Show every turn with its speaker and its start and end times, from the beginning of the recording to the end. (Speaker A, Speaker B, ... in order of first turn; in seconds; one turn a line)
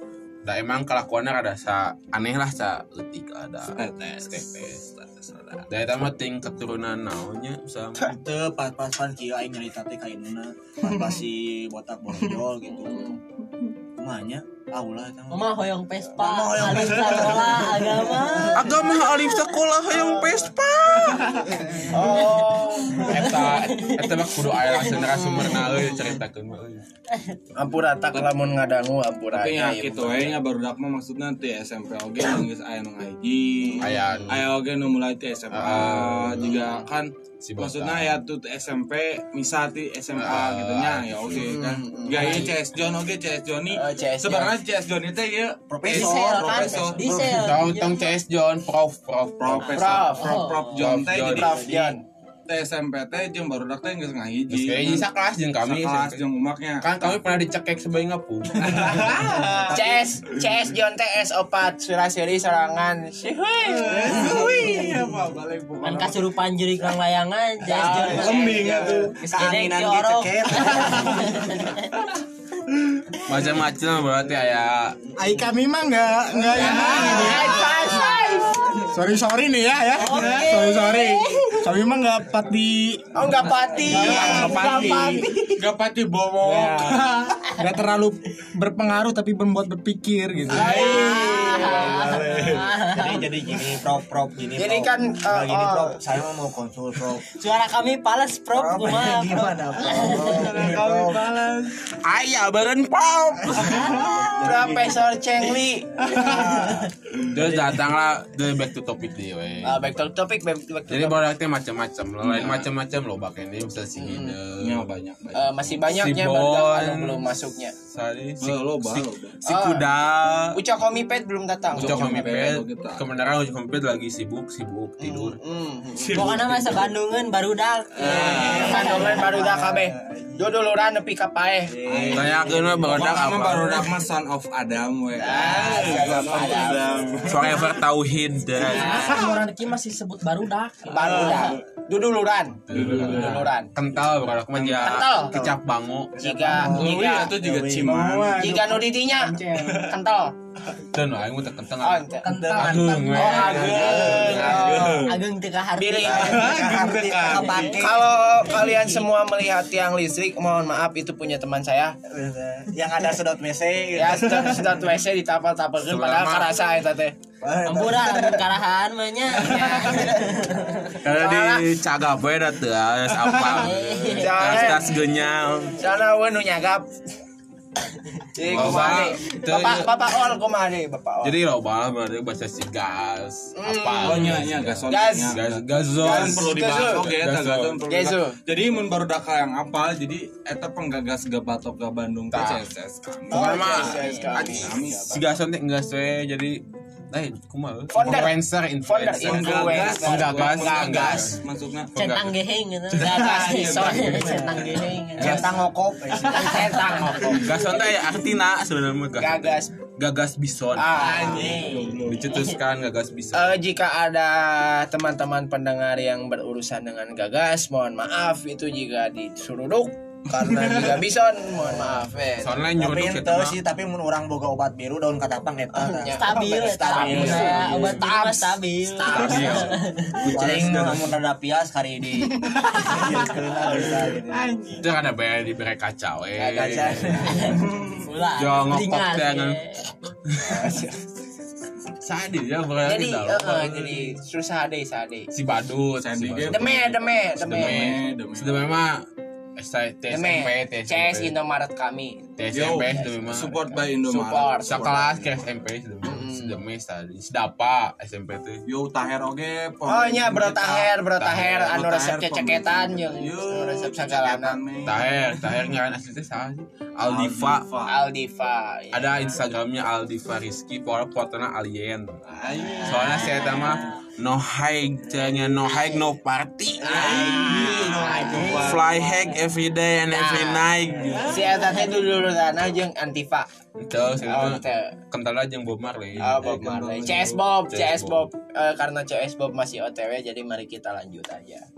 Speaker A: 0.4-4.8
Speaker B: 3.7-5.7
Speaker A: 5.7-8.1
Speaker C: 8.0-13.1
Speaker D: 12.8-13.2
Speaker C: 14.0-15.5
Speaker E: 15.3-18.9
Speaker C: 16.1-18.7
Speaker A: 18.5-21.6
Speaker D: 19.9-20.5
Speaker D: 21.8-23.3
Speaker E: 22.1-22.5
Speaker A: 23.0-26.8
Speaker E: 23.1-25.0
Speaker D: 25.0-25.9
Speaker D: 27.5-30.4
Speaker B: 29.3-47.1
Speaker D: 33.6-34.4
Speaker A: 33.8-34.5
Speaker A: 35.5-36.7
Speaker D: 36.5-36.7
Speaker A: 37.4-38.2
Speaker A: 40.1-41.6
Speaker D: 41.4-42.5
Speaker E: 42.1-42.5
Speaker D: 43.7-44.5
Speaker C: 45.7-47.4
Speaker E: 45.8-48.1
Speaker A: 47.1-50.1
Speaker B: 49.4-51.6
Speaker D: 49.7-50.3
Speaker E: 50.1-50.9
Speaker A: 50.7-51.7
Speaker D: 51.1-52.0
Speaker B: 52.5-55.1
Speaker A: 54.5-56.2
Speaker B: 55.6-57.2
Speaker A: 56.8-59.2
Speaker B: 58.5-59.9
Speaker D: 59.7-64.5
Speaker B: 63.6-66.2
Speaker E: 64.3-64.9
Speaker C: 64.3-64.8
Speaker E: 65.8-72.0
Speaker D: 67.6-69.1
Speaker B: 68.0-69.2
Speaker C: 68.9-71.6
Speaker A: 73.2-75.0
Speaker C: 75.2-77.7
Speaker F: 75.2-77.8
Speaker B: 76.4-77.8
Speaker D: 76.5-78.9
Speaker F: 78.9-83.0
Speaker B: 78.9-79.2
Speaker B: 79.8-82.5
Speaker E: 80.0-81.7
Speaker D: 83.1-85.3
Speaker B: 83.8-87.8
Speaker C: 83.9-84.5
Speaker F: 84.0-85.2
Speaker E: 84.0-85.0
Speaker F: 86.4-90.6
Speaker B: 90.3-92.8
Speaker D: 90.5-92.0
Speaker E: 90.5-93.3
Speaker C: 92.8-97.3
Speaker D: 94.6-96.0
Speaker E: 97.3-100.6
Speaker C: 98.5-101.3
Speaker B: 100.1-101.8
Speaker A: 101.9-104.0
Speaker C: 103.6-105.0
Speaker E: 103.6-104.2
Speaker D: 104.4-106.6
Speaker C: 106.1-106.9
Speaker A: 107.3-110.0
Speaker D: 109.6-111.2
Speaker A: 110.9-114.9
Speaker B: 112.2-112.7
Speaker D: 114.0-114.4
Speaker B: 114.6-115.5
Speaker D: 115.3-117.7
Speaker A: 115.8-120.6
Speaker B: 118.4-119.4
Speaker D: 119.4-119.8
Speaker D: 120.5-122.5
Speaker B: 121.7-123.0
Speaker A: 121.7-125.4
Speaker D: 125.0-126.3
Speaker B: 125.9-126.8
Speaker E: 126.1-129.3
Speaker B: 128.0-128.8
Speaker D: 128.0-131.7
Speaker C: 128.2-130.4
Speaker C: 131.7-133.2
Speaker B: 131.9-137.6
Speaker A: 132.1-133.9
Speaker D: 135.2-137.2
Speaker E: 135.4-136.7
Speaker A: 137.2-139.2
Speaker E: 138.6-141.6
Speaker D: 138.6-139.2
Speaker B: 138.9-139.4
Speaker D: 140.9-143.7
Speaker B: 141.0-141.4
Speaker A: 142.7-146.2
Speaker B: 142.7-143.5
Speaker B: 144.5-144.9
Speaker D: 144.8-145.3
Speaker C: 145.1-145.6
Speaker C: 146.1-148.5
Speaker D: 146.2-147.3
Speaker B: 146.7-148.6
Speaker F: 148.0-148.8
Speaker D: 148.4-150.3
Speaker E: 149.3-149.8
Speaker B: 149.5-149.8
Speaker A: 150.9-155.0
Speaker D: 151.8-152.3
Speaker C: 152.2-154.5
Speaker E: 152.2-157.9
Speaker D: 153.1-155.1
Speaker B: 153.4-155.2
Speaker D: 155.8-157.2
Speaker B: 156.1-157.7
Speaker C: 156.1-158.1
Speaker D: 157.7-161.9
Speaker E: 158.5-159.0
Speaker C: 162.1-164.8
Speaker D: 163.9-167.1
Speaker A: 165.8-166.5
Speaker C: 167.4-168.4
Speaker E: 167.6-171.0
Speaker D: 169.4-170.3
Speaker A: 171.0-175.8
Speaker D: 171.1-171.7
Speaker B: 173.2-173.6
Speaker E: 173.4-174.7
Speaker D: 174.1-174.9
Speaker D: 175.8-176.9
Speaker D: 178.3-181.3
Speaker A: 178.4-179.9
Speaker E: 178.6-179.0
Speaker A: 181.2-187.8
Speaker D: 183.5-185.4
Speaker B: 184.0-195.2
Speaker D: 186.0-187.1
Speaker D: 187.9-188.4
Speaker A: 192.3-192.6
Speaker D: 193.3-195.3
Speaker A: 193.3-201.4
Speaker E: 193.9-194.4
Speaker D: 197.9-201.4
Speaker B: 199.2-201.9
Speaker A: 201.9-202.4
Speaker E: 201.9-205.5
Speaker A: 202.9-203.3
Speaker B: 202.9-205.5
Speaker D: 203.1-204.3
Speaker C: 204.1-206.9
Speaker D: 206.2-207.6
Speaker E: 206.4-207.3
Speaker A: 207.3-213.6
Speaker D: 209.2-209.7
Speaker D: 210.7-211.6
Speaker E: 211.0-212.5
Speaker B: 211.0-212.4
Speaker C: 211.5-211.8
Speaker D: 213.3-222.6
Speaker B: 220.3-221.0
Speaker C: 221.6-222.0
Speaker A: 222.4-223.6
Speaker C: 222.8-228.1
Speaker D: 225.7-229.8
Speaker E: 226.2-230.3
Speaker A: 229.1-231.1
Speaker C: 230.2-234.5
Speaker B: 232.6-234.8
Speaker A: 234.8-237.5
Speaker D: 236.4-237.5
Speaker C: 236.5-237.6
Speaker E: 237.2-239.9
Speaker B: 237.7-238.0
Speaker A: 238.3-239.6
Speaker A: 240.2-240.8
Speaker D: 240.4-241.0
Speaker A: 242.0-244.2
Speaker D: 242.8-245.3
Speaker A: 245.3-249.1
Speaker B: 246.0-248.7
Speaker D: 246.5-248.0
Speaker A: 249.6-251.3
Speaker D: 250.1-253.3
Speaker A: 252.4-253.8
Speaker B: 252.5-255.3
Speaker D: 254.0-255.2
Speaker A: 254.6-258.6
Speaker D: 256.0-256.6
Speaker B: 258.7-260.9
Speaker D: 259.9-264.6
Speaker A: 261.2-261.8
Speaker B: 261.5-265.5
Speaker A: 264.8-267.7
Speaker B: 267.0-267.9
Speaker D: 267.9-269.4
Speaker A: 268.9-272.2
Speaker B: 272.4-273.4
Speaker E: 272.6-274.0
Speaker A: 272.8-281.5
Speaker E: 275.7-276.0
Speaker B: 276.8-278.9
Speaker C: 276.9-278.6
Speaker D: 276.9-278.8
Speaker E: 277.6-279.3
Speaker D: 280.1-283.5
Speaker B: 281.0-281.5
Speaker E: 281.5-282.1
Speaker A: 283.8-288.3
Speaker D: 284.2-284.9
Speaker D: 286.2-291.6
Speaker B: 286.3-287.4